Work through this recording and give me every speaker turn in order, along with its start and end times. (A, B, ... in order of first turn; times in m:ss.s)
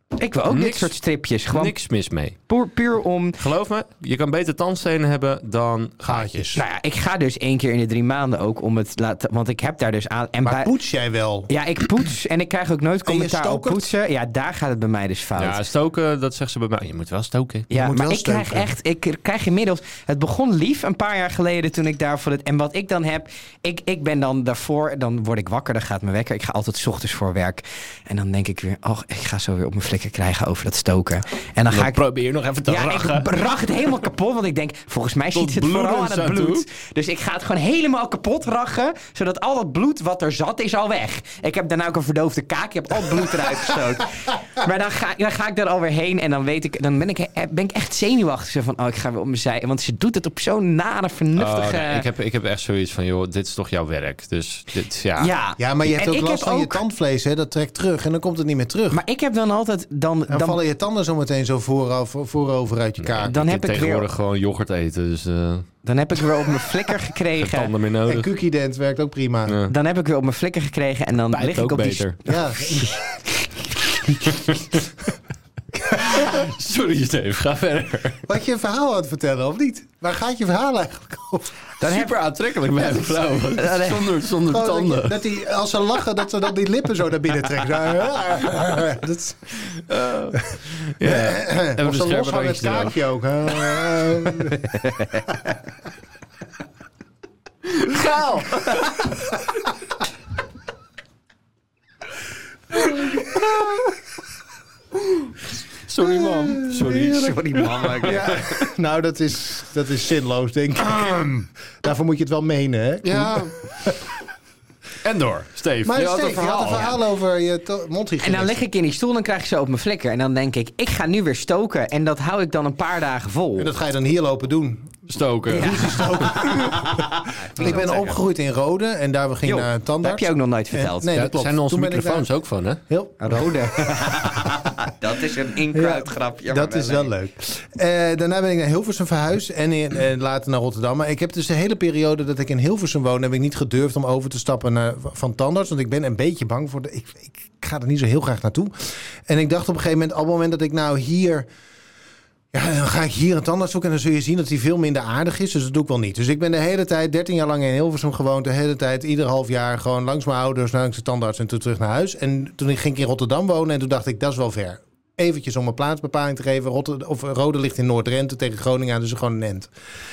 0:00.2-0:01.7 A
0:00.5-0:00.9 B
0:01.5-0:02.4 B
0:02.5-0:03.4 A
0:03.4-0:06.6 B
0:06.0-0:06.6 C
0:06.5-0:10.7 A
0:10.4-0:11.5 C
0:11.5-0:15.6 A
0:13.0-0:13.9 C
0:15.4-0:17.7 B
0:17.7-0:32.0 A
0:17.7-0:18.7 C
0:31.7-0:33.4 B
0:32.6-0:52.0 A
0:35.3-0:36.6 B
0:51.3-0:55.3 B
0:55.2-0:56.8 A
0:55.6-0:59.0 C
0:58.9-1:00.6 A
1:00.3-1:03.4 C
1:03.0-1:05.7 B
1:03.2-1:04.1 A
1:05.8-1:07.7 A
1:07.4-1:08.3 B
1:08.1-1:09.6 C
1:09.5-1:09.7 B
1:09.7-1:13.5 A
1:11.3-1:12.2 B
1:12.2-1:13.0 C
1:14.2-1:14.8 B
1:15.9-1:16.2 C
1:15.9-1:18.2 B
1:18.2-1:21.5 C
1:21.8-1:22.1 A
1:21.8-1:25.2 B
1:22.7-1:24.2 A
1:24.5-1:29.7 C
1:29.7-1:33.0 B
1:31.0-1:34.7 C
1:37.7-1:39.0 B
1:42.8-1:43.5 C
1:43.2-1:43.7 B
1:45.9-1:48.4 B
1:46.0-1:46.8 C
1:46.8-1:48.6 A
1:48.0-1:54.0 C
1:53.0-1:53.5 B
1:55.0-1:56.9 B
1:55.8-1:58.6 C
1:58.2-2:03.7 A
2:03.6-2:05.0 C
2:05.1-2:06.4 B
2:05.5-2:12.3 C
2:05.5-2:08.1 A
2:09.4-2:11.1 A
2:11.1-2:12.8 B
2:12.9-2:14.7 C
2:13.2-2:17.1 A
2:15.7-2:31.4 C
2:32.5-2:49.7 C